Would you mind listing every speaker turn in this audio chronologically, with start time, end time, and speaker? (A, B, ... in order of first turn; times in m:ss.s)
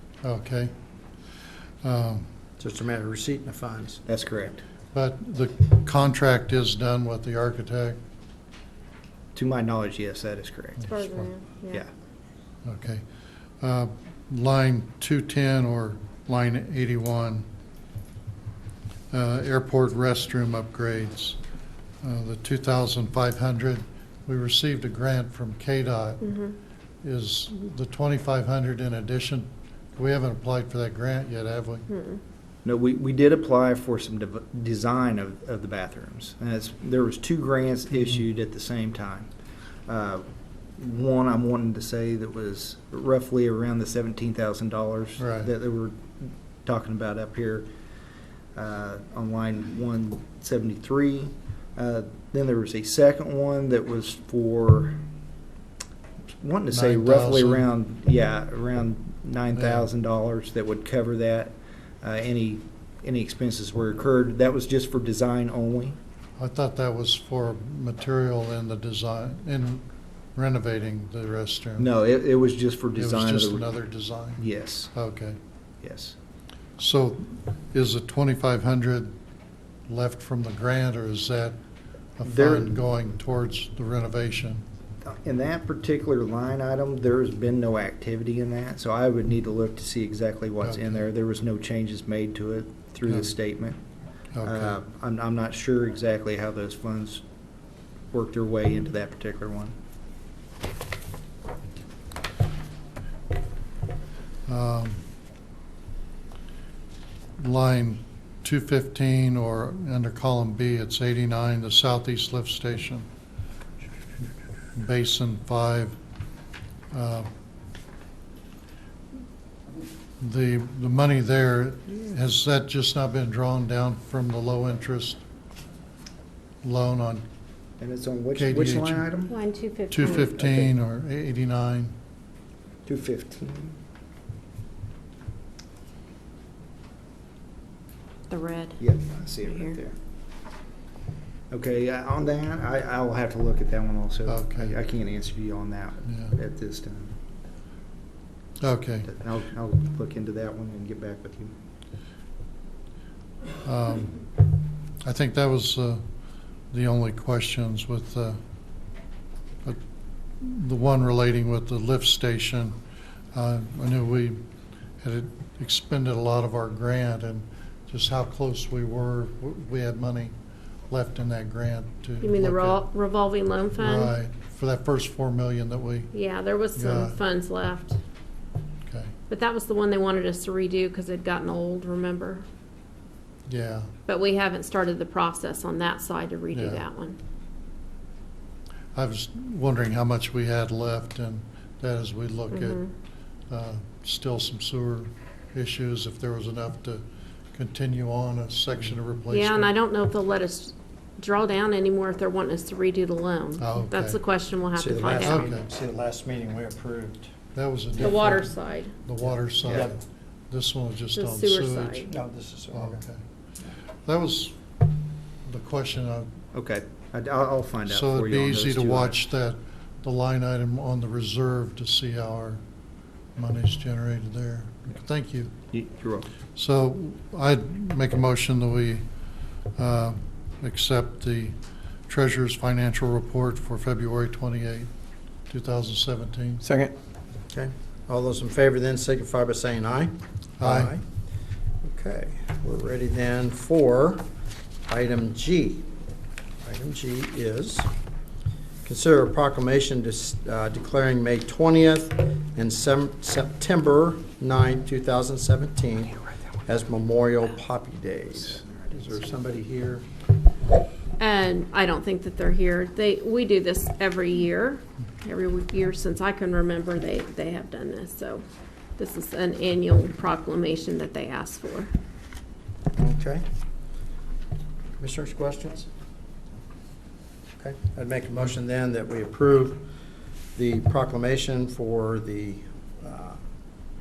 0:00.2-0:00.7 A
0:01.8-0:02.3 A
0:02.6-0:04.0 B
0:04.1-0:04.6 C
0:04.9-0:08.0 A
0:09.4-0:10.9 C
0:10.8-0:11.3 A
0:10.9-0:11.8 D
0:12.6-0:13.0 A
0:13.6-0:17.5 A
0:19.1-0:21.4 A
0:22.0-0:26.3 A
0:26.2-0:26.5 D
0:27.0-0:31.9 A
0:31.9-0:32.2 D
0:32.6-0:39.3 C
0:39.9-0:40.2 C
0:40.8-0:47.7 C
0:45.2-0:45.5 A
0:48.6-0:55.0 C
0:56.4-1:06.0 C
0:56.7-0:57.7 A
0:59.5-0:59.9 A
1:06.4-1:11.9 A
1:11.8-1:13.7 C
1:13.0-1:15.4 A
1:14.4-1:14.9 C
1:15.8-1:16.2 C
1:16.8-1:19.1 A
1:19.9-1:21.6 A
1:22.2-1:24.6 A
1:22.2-1:22.8 C
1:25.0-1:33.8 C
1:30.6-1:31.0 A
1:34.4-1:34.8 A
1:34.4-1:37.2 C
1:38.1-1:39.7 C
1:44.5-1:45.0 A
1:47.4-1:53.1 A
1:54.8-1:56.0 A
1:56.9-1:57.3 A
2:00.2-2:05.2 A
2:06.6-2:07.2 A
2:07.8-2:09.4 C
2:08.3-2:09.1 A
2:09.3-2:10.4 D
2:09.9-2:11.9 A
2:10.2-2:10.7 C
2:12.9-2:13.8 C
2:18.3-2:18.8 D
2:18.8-2:20.0 C
2:19.4-2:19.8 D
2:21.5-2:27.1 C
2:24.3-2:24.7 A
2:26.1-2:26.4 A
2:28.6-2:29.1 A
2:29.0-2:31.5 C
2:33.6-2:34.2 A
2:35.0-2:36.0 A
2:36.7-2:38.4 A
2:40.4-2:42.8 A
2:43.3-2:44.4 A
2:45.0-2:50.3 A
2:50.9-2:52.8 A
2:52.2-2:54.2 D
2:53.8-2:56.1 A
2:56.1-2:58.0 D
2:56.8-2:57.2 A
2:59.3-3:02.4 D
3:03.5-3:03.9 A
3:04.1-3:07.2 D
3:06.5-3:06.8 A
3:09.0-3:12.8 A
3:12.5-3:12.9 D
3:13.5-3:17.0 A
3:17.5-3:19.7 A
3:19.3-3:25.5 D
3:23.6-3:24.2 A
3:24.8-3:27.3 B
3:25.1-3:25.7 A
3:27.6-3:32.0 A
3:28.0-3:28.9 D
3:29.7-3:30.0 B
3:31.1-3:32.1 D
3:32.1-3:33.0 B
3:32.7-3:33.2 A
3:34.1-3:34.6 A
3:35.5-3:36.3 A
3:36.5-3:39.2 C
3:37.9-3:42.6 A
3:43.4-3:45.5 A
3:45.7-3:46.3 C
3:46.6-3:49.0 A
3:49.8-3:51.6 A
3:52.1-3:54.9 A
3:55.5-3:56.7 A
3:57.5-4:01.0 B
4:00.6-4:01.0 A
4:01.8-4:04.2 B
4:04.9-4:05.9 B
4:06.6-4:07.9 B
4:08.8-4:20.0 B
4:21.2-4:28.4 D
4:29.0-4:31.9 D
4:33.0-4:33.4 B
4:35.0-4:35.9 B
4:37.6-4:39.8 B
4:40.6-4:43.4 B